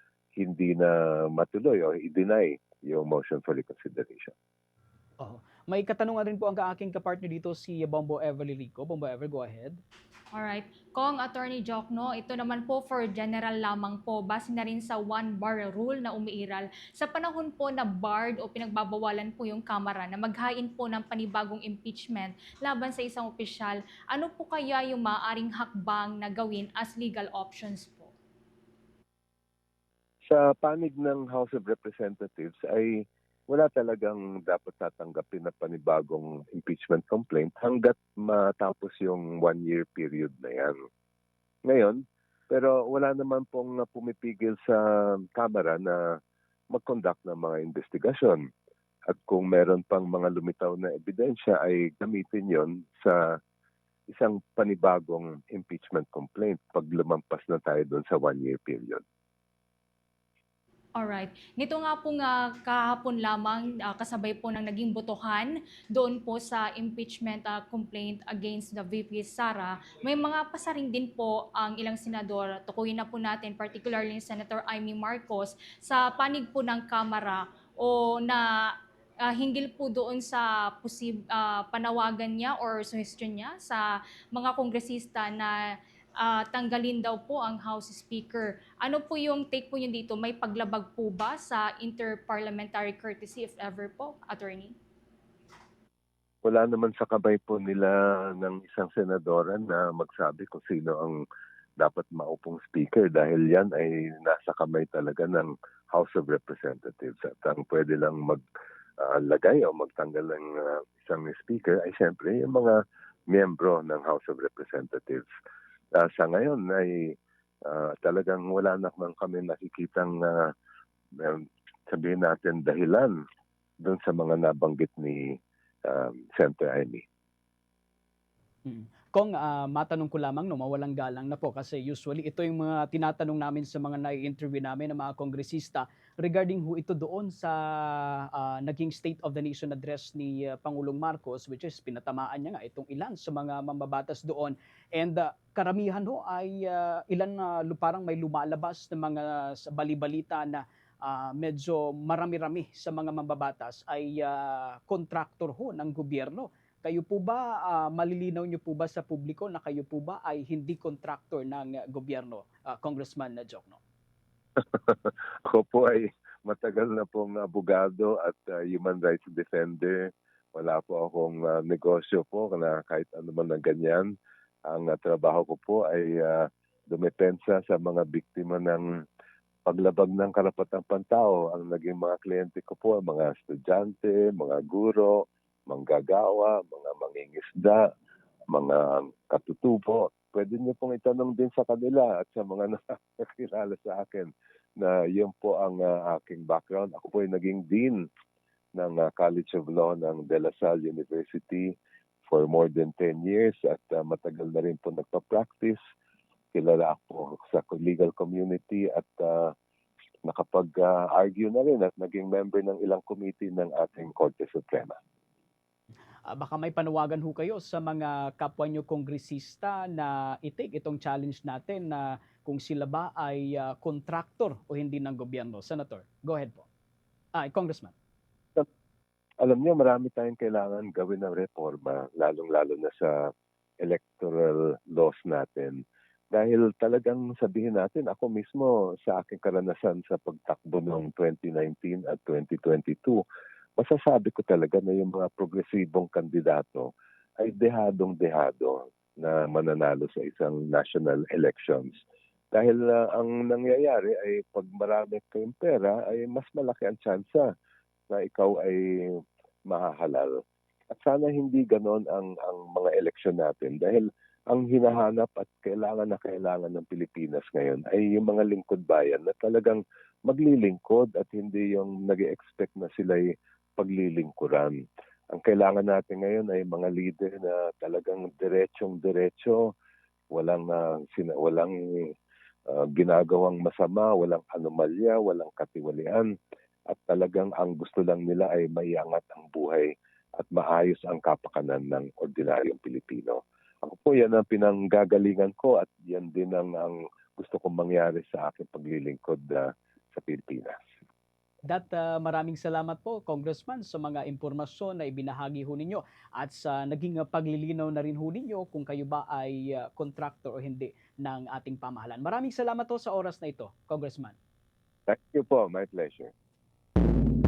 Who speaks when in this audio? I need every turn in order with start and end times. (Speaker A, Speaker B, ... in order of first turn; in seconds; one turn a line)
Speaker A: 0.4-4.3
Speaker B: 5.2-9.8
Speaker C: 10.3-28.1
Speaker A: 30.3-40.8
Speaker A: 41.7-46.2
Speaker A: 46.7-48.4
Speaker A: 49.1-53.4
Speaker A: 54.1-59.0
Speaker C: 61.0-78.7
Speaker C: 79.2-94.8
Speaker A: 96.4-101.2
Speaker A: 101.8-108.4
Speaker A: 109.0-112.8
Speaker A: 113.3-115.2
Speaker A: 115.9-120.5
Speaker A: 121.2-123.2
Speaker A: 123.8-125.4
Speaker A: 125.9-127.0
Speaker B: 128.7-163.8
Speaker A: 164.6-174.1
Speaker A: 174.7-178.9
Speaker A: 179.7-187.8
Speaker A: 188.5-198.1
Speaker A: 198.8-201.7
Speaker A: 202.3-205.8
Speaker A: 206.5-209.5
Speaker A: 210.3-215.0
Speaker B: 216.3-226.7
Speaker B: 227.3-227.9
Speaker A: 229.4-233.3
Speaker A: 233.8-235.8
Speaker A: 236.3-243.2
Speaker A: 243.8-252.0
Speaker A: 252.5-257.5
Speaker A: 258.1-260.4
Speaker A: 260.9-279.7
Speaker A: 280.3-282.1
Speaker A: 282.7-286.3
Speaker A: 286.9-300.8
Speaker B: 301.6-314.4
Speaker A: 315.1-316.3